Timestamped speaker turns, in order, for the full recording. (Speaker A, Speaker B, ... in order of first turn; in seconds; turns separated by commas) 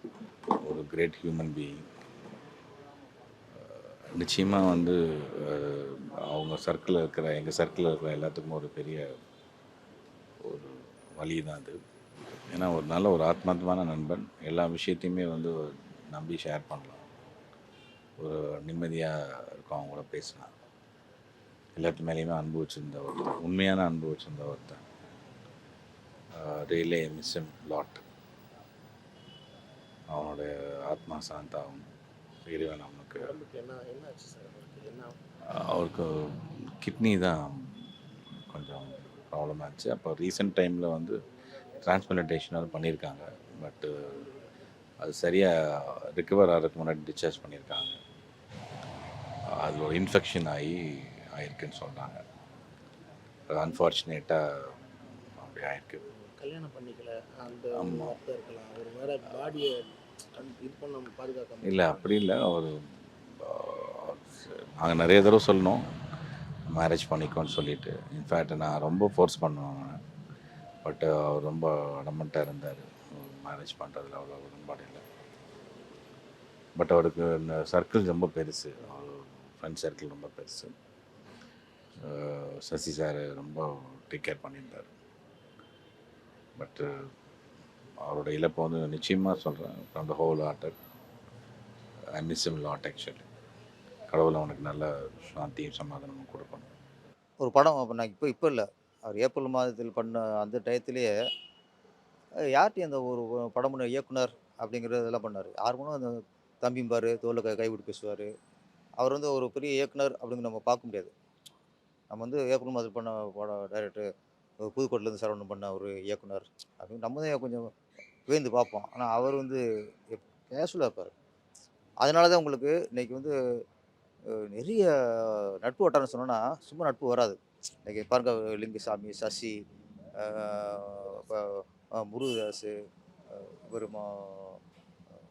Speaker A: 0.6-1.9, Speaker A: 3.5-9.1, Speaker A: 10.4-11.8, Speaker A: 12.5-15.6, Speaker A: 16.1-17.1, Speaker A: 18.2-20.5, Speaker A: 21.8-24.8, Speaker A: 26.3-28.0, Speaker A: 30.1-31.9, Speaker A: 32.4-33.4, Speaker B: 33.2-35.2, Speaker A: 35.5-37.9, Speaker A: 38.5-41.2, Speaker A: 41.8-44.2, Speaker A: 45.0-48.0, Speaker A: 49.5-52.2, Speaker A: 53.5-54.8, Speaker A: 55.3-56.0, Speaker B: 56.1-62.1, Speaker A: 57.8-58.1, Speaker A: 61.6-65.8, Speaker A: 66.7-70.0, Speaker A: 70.8-75.0, Speaker A: 76.8-80.7, Speaker A: 82.0-84.9, Speaker A: 86.6-86.9, Speaker A: 88.0-90.8, Speaker A: 92.1-93.3, Speaker A: 94.1-96.7, Speaker C: 97.4-101.1, Speaker C: 102.5-108.3, Speaker C: 109.0-111.1, Speaker C: 112.1-114.1, Speaker C: 114.6-117.7, Speaker C: 118.3-121.1, Speaker C: 122.0-123.3, Speaker C: 124.3-129.6, Speaker C: 130.2-132.7, Speaker C: 133.3-134.6